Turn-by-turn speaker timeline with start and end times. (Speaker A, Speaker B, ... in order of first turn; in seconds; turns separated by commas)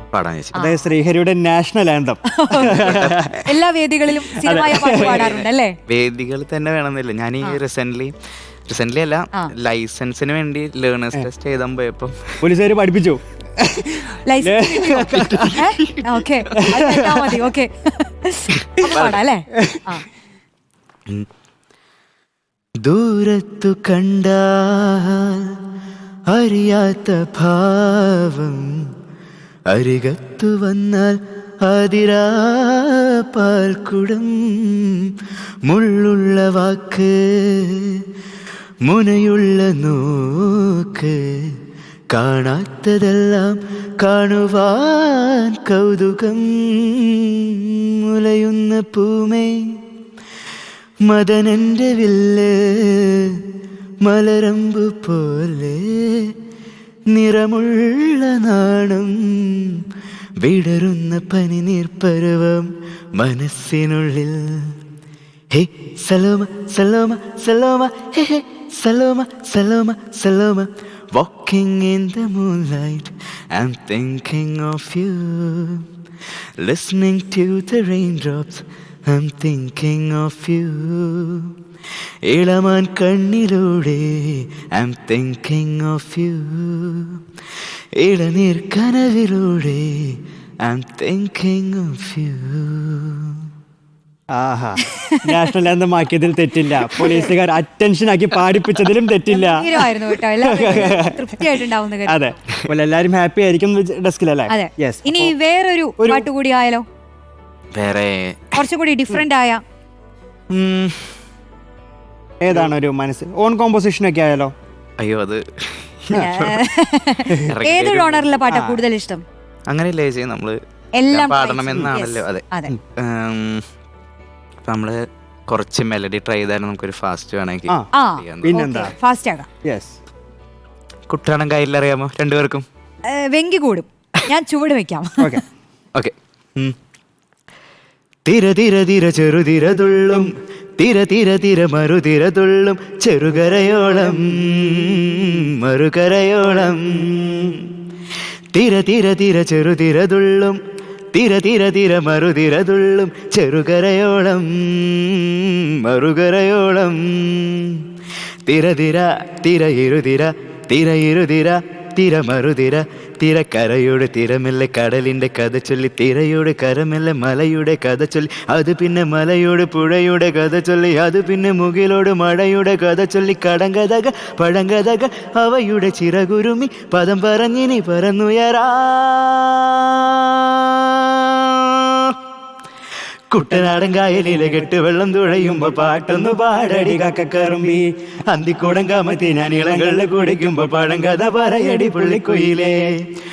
Speaker A: 0.1-0.7, Speaker B: 0.5-0.9, Speaker C: 0.6-3.4, Speaker B: 2.3-5.8, Speaker A: 2.8-3.3, Speaker C: 4.3-5.4, Speaker A: 5.0-8.1, Speaker A: 8.7-12.2, Speaker C: 12.4-15.7, Speaker B: 14.3-20.1, Speaker A: 15.4-16.2, Speaker C: 16.6-17.4, Speaker A: 18.8-19.2, Speaker A: 22.9-25.6, Speaker A: 26.3-28.8, Speaker A: 29.7-35.1, Speaker A: 35.7-38.0, Speaker A: 38.9-41.5, Speaker A: 42.1-49.8, Speaker A: 51.1-53.4, Speaker A: 54.0-56.3, Speaker A: 57.1-59.8, Speaker A: 60.4-64.8, Speaker A: 65.5-75.9, Speaker A: 76.6-81.5, Speaker A: 82.3-87.2, Speaker A: 88.0-93.4, Speaker C: 94.3-101.5, Speaker B: 94.8-95.4, Speaker B: 96.9-97.3, Speaker B: 99.3-102.3, Speaker C: 102.1-105.3, Speaker B: 104.5-106.8, Speaker C: 106.0-106.3, Speaker A: 107.7-108.6, Speaker B: 108.5-109.6, Speaker A: 110.5-111.1, Speaker C: 112.4-114.5, Speaker A: 115.0-116.7, Speaker B: 116.1-119.2, Speaker A: 117.4-118.3, Speaker C: 118.5-118.8, Speaker A: 119.7-120.6, Speaker B: 121.0-122.8, Speaker A: 121.1-122.5, Speaker A: 123.0-123.6, Speaker A: 124.7-128.6, Speaker B: 127.9-129.5, Speaker C: 128.4-128.9, Speaker C: 129.6-129.9, Speaker A: 131.1-132.7, Speaker B: 133.1-135.4, Speaker A: 135.9-136.7, Speaker A: 138.3-147.6, Speaker A: 148.5-150.6, Speaker A: 151.1-157.8, Speaker A: 158.5-182.2, Speaker A: 183.3-192.9